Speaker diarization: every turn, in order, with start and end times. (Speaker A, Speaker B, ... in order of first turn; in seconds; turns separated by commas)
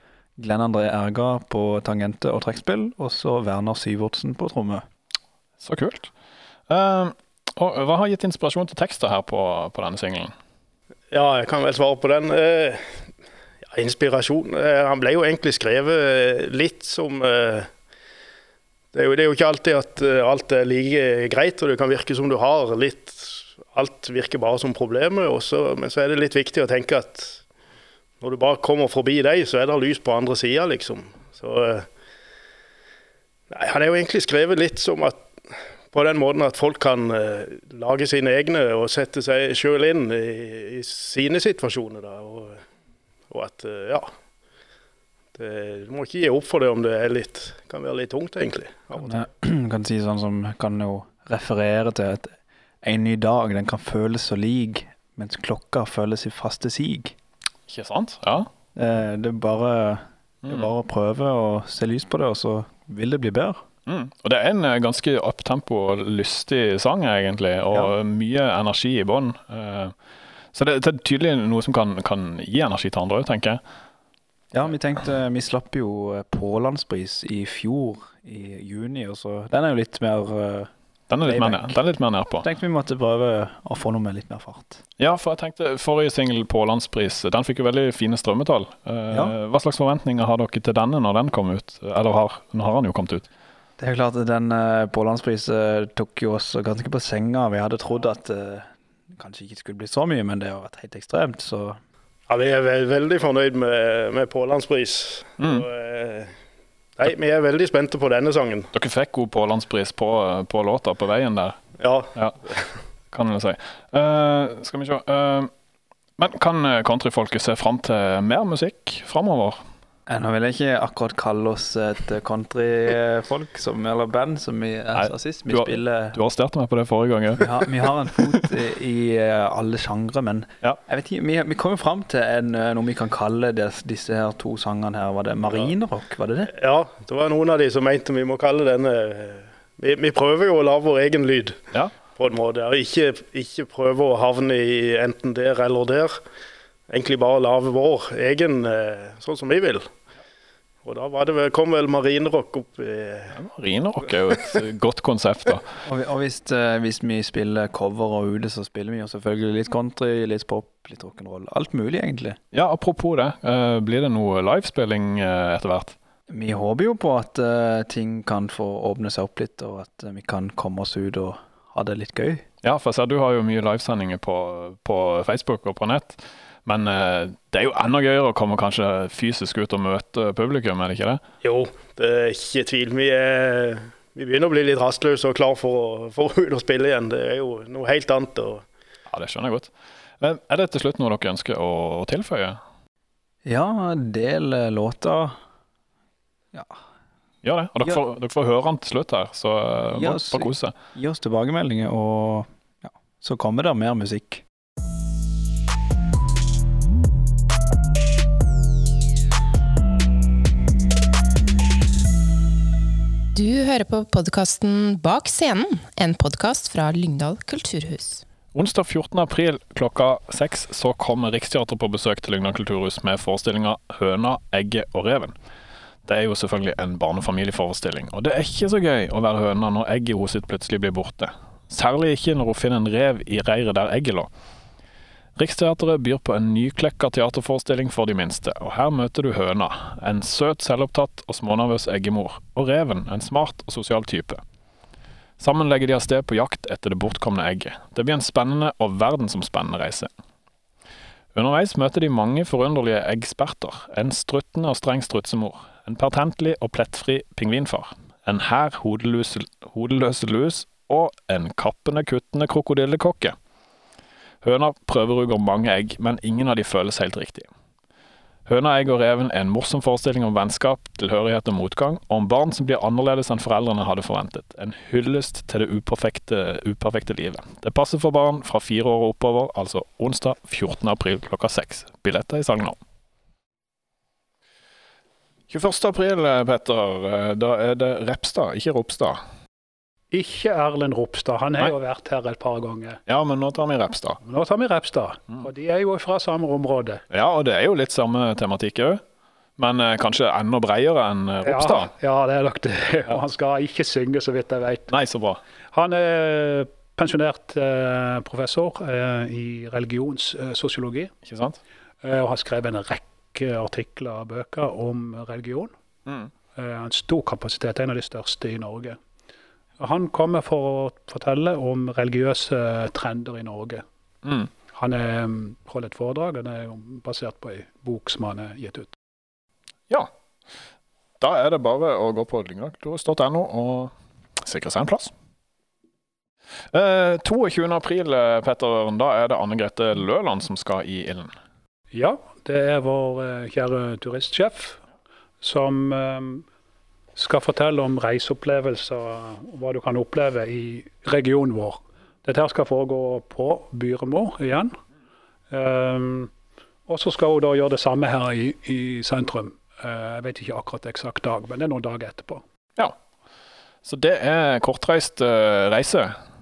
Speaker A: 0.4-4.8, Speaker B: 5.6-6.1, Speaker B: 6.7-10.3, Speaker C: 11.1-13.0, Speaker C: 13.7-17.7, Speaker C: 18.9-27.4, Speaker C: 28.2-31.9, Speaker C: 33.5-42.6, Speaker C: 43.3-44.1, Speaker C: 45.3-49.2, Speaker A: 49.0-57.1, Speaker B: 57.7-58.5, Speaker A: 58.7-63.6, Speaker B: 63.9-69.9, Speaker B: 70.5-73.6, Speaker A: 74.5-80.7, Speaker B: 81.1-82.4, Speaker A: 81.2-81.8, Speaker A: 82.4-84.8, Speaker B: 85.0-93.2, Speaker A: 93.8-101.8, Speaker C: 102.3-106.3, Speaker B: 105.4-105.6, Speaker C: 107.0-108.7, Speaker B: 108.7-111.6, Speaker C: 111.8-112.7, Speaker B: 113.1-115.5, Speaker B: 116.2-119.6, Speaker A: 120.1-126.2, Speaker B: 124.9-127.6, Speaker A: 127.4-136.5, Speaker C: 136.5-141.6, Speaker C: 142.2-146.2, Speaker C: 146.9-149.9, Speaker C: 150.8-153.3, Speaker B: 153.3-155.6, Speaker A: 155.8-162.4, Speaker B: 162.5-165.9, Speaker A: 166.3-172.4, Speaker B: 172.6-181.2, Speaker C: 181.4-188.6, Speaker B: 189.1-192.6, Speaker A: 193.4-195.4, Speaker B: 197.4-200.7, Speaker A: 199.9-204.4, Speaker D: 213.3-218.2, Speaker B: 218.5-225.3, Speaker B: 226.1-234.3, Speaker B: 235.4-244.4, Speaker B: 245.4-250.1, Speaker B: 251.3-263.4, Speaker B: 264.4-267.5, Speaker B: 268.5-282.8, Speaker B: 285.5-289.2, Speaker E: 290.1-293.0, Speaker B: 293.1-294.2, Speaker E: 294.2-297.0, Speaker B: 297.1-299.0, Speaker B: 299.6-301.9, Speaker E: 301.4-304.9, Speaker B: 304.9-305.4, Speaker E: 305.7-311.1, Speaker B: 311.2-311.6, Speaker E: 312.0-315.7, Speaker E: 316.6-319.0, Speaker E: 319.8-323.8, Speaker B: 324.2-324.5, Speaker E: 324.7-328.9, Speaker B: 331.2-335.1, Speaker B: 336.7-341.3, Speaker E: 341.9-344.8, Speaker E: 345.4-346.4, Speaker E: 347.1-354.7, Speaker E: 355.5-356.3, Speaker E: 356.9-362.4, Speaker B: 363.8-366.2